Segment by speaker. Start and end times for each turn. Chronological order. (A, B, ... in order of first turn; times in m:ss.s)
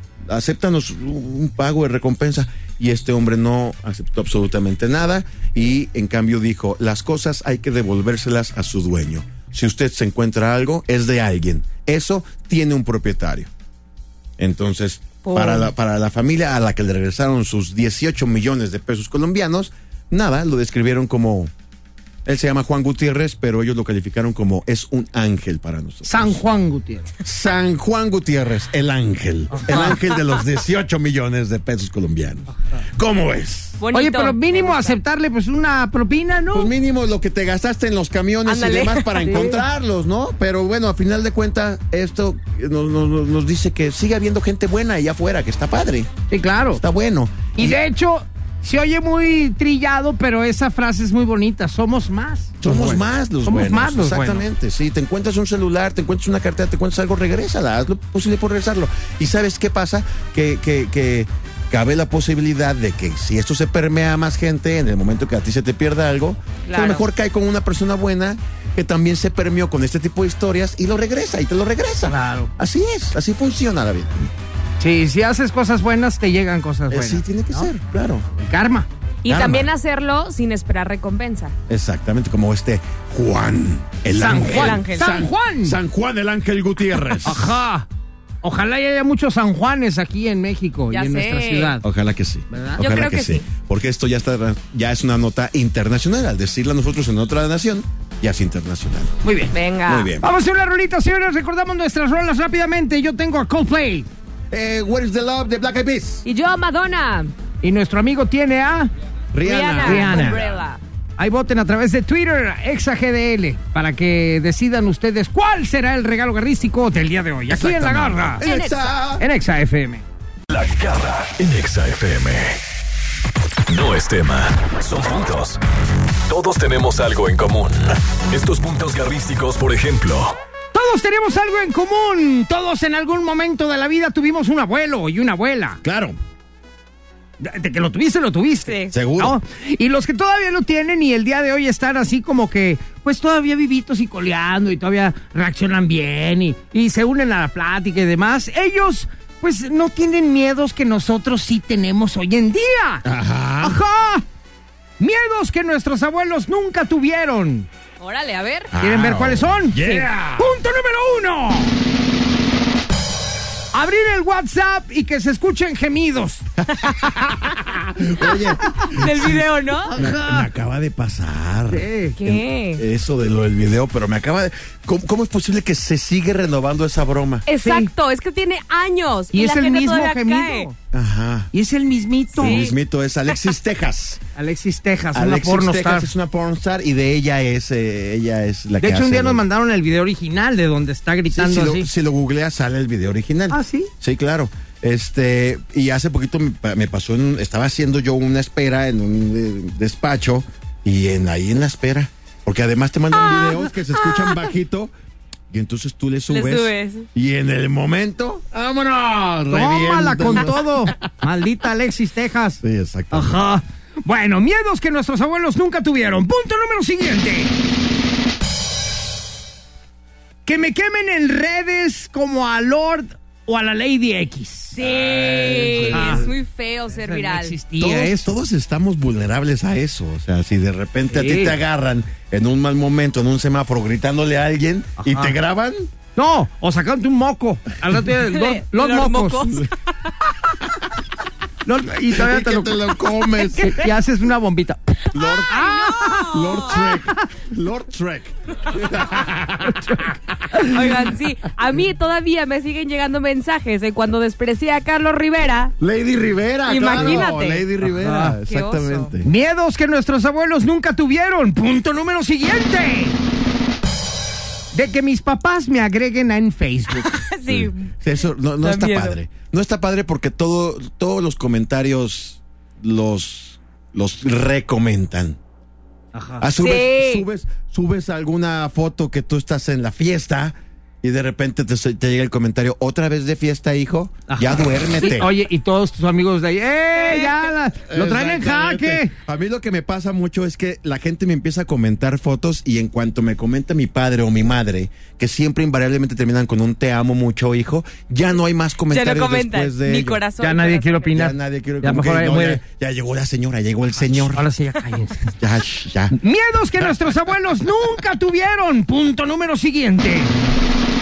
0:00.3-0:13.5 A
0:14.4-0:21.5 A
0:15.2-0:15.7 B
0:22.2-0:26.4 A
0:26.0-0:27.1 C
0:27.2-0:33.8 A
0:29.5-0:30.0 C
0:32.6-0:32.8 C
0:33.8-0:35.0 B
0:33.9-0:36.7 C
0:36.5-0:46.1 A
0:38.5-0:39.4 B
0:39.2-0:39.6 C
0:46.3-0:46.8 C
0:46.8-0:47.8 A
0:47.6-0:54.4 C
0:52.6-1:14.3 A
1:06.7-1:07.0 B
1:12.1-1:12.5 C
1:14.8-1:17.7 C
1:16.9-1:18.3 A
1:18.4-1:18.9 C
1:19.2-1:21.6 B
1:19.3-1:19.7 A
1:21.7-1:27.6 A
1:24.1-1:25.8 C
1:24.3-1:25.2 B
1:27.2-1:27.9 C
1:28.4-1:31.8 C
1:30.9-1:31.7 B
1:31.8-1:39.2 A
1:32.5-1:32.8 C
1:32.8-1:33.4 B
1:39.2-1:39.5 C
1:39.5-1:40.1 B
1:39.9-1:40.3 A
1:40.2-1:44.1 C
1:44.5-1:46.2 A
1:46.2-1:47.3 B
1:47.6-1:48.9 C
1:49.3-1:50.5 A
1:49.4-1:50.8 B
1:49.7-1:50.4 C
1:51.2-1:58.4 C
1:57.5-1:59.2 A
1:58.4-1:59.0 B
1:59.2-2:00.0 C
2:00.5-2:02.6 D
2:03.7-2:05.6 D
2:06.3-2:10.4 D
2:10.7-2:15.8 C
2:15.8-2:16.2 A
2:17.4-2:33.0 C
2:18.7-2:19.0 B
2:18.9-2:19.4 A
2:33.0-2:33.8 A
2:33.6-2:34.2 C
2:35.0-2:37.7 C
2:38.0-2:38.7 B
2:38.7-2:40.6 A
2:38.8-2:41.8 C
2:43.7-2:46.4 C
2:46.8-2:57.5 A
2:46.8-2:47.3 B
2:48.9-2:50.0 B
2:49.9-2:50.5 C
2:51.7-2:52.2 C
2:52.2-2:52.8 B
2:57.5-3:00.7 B
2:57.6-2:57.9 C
2:59.3-3:00.8 C
3:00.9-3:01.5 A
3:01.5-3:02.7 C
3:02.4-3:02.8 B
3:02.4-3:04.2 A
3:04.4-3:06.1 C
3:05.1-3:09.4 A
3:08.8-3:11.9 C
3:11.3-3:24.9 A
3:13.5-3:13.9 C
3:25.5-3:31.1 A
3:26.3-3:27.1 B
3:29.5-3:37.5 C
3:32.6-3:33.4 A
3:40.5-3:44.8 C
3:44.7-3:47.6 B
3:44.8-3:46.4 A
3:45.9-3:46.3 C
3:46.9-3:48.3 C
3:47.8-3:55.9 A
3:51.1-3:51.6 C
3:55.0-3:55.4 C
3:56.2-3:59.5 C
3:58.2-3:59.7 B
4:01.6-4:02.9 C
4:02.1-4:03.9 A
4:03.5-4:07.2 C
4:05.1-4:05.7 A
4:05.2-4:06.9 B
4:06.3-4:10.9 A
4:09.6-4:10.7 C
4:10.6-4:15.8 B
4:15.8-4:19.3 A
4:16.7-4:17.7 B
4:16.9-4:17.3 C
4:17.8-4:18.4 C
4:18.4-4:19.1 B
4:19.2-4:23.2 C
4:24.7-4:27.1 C
4:27.0-4:27.9 B
4:27.5-4:35.4 A
4:28.6-4:29.2 B
4:36.1-4:36.5 C
4:36.4-4:45.3 A
4:36.6-4:37.2 B
4:44.3-4:49.1 C
4:47.0-4:47.3 B
4:47.9-5:00.2 A
4:58.9-5:01.2 B
5:00.4-5:02.6 C
5:01.1-5:04.4 A
5:04.0-5:05.4 C
5:05.4-5:06.2 A
5:06.1-5:10.4 C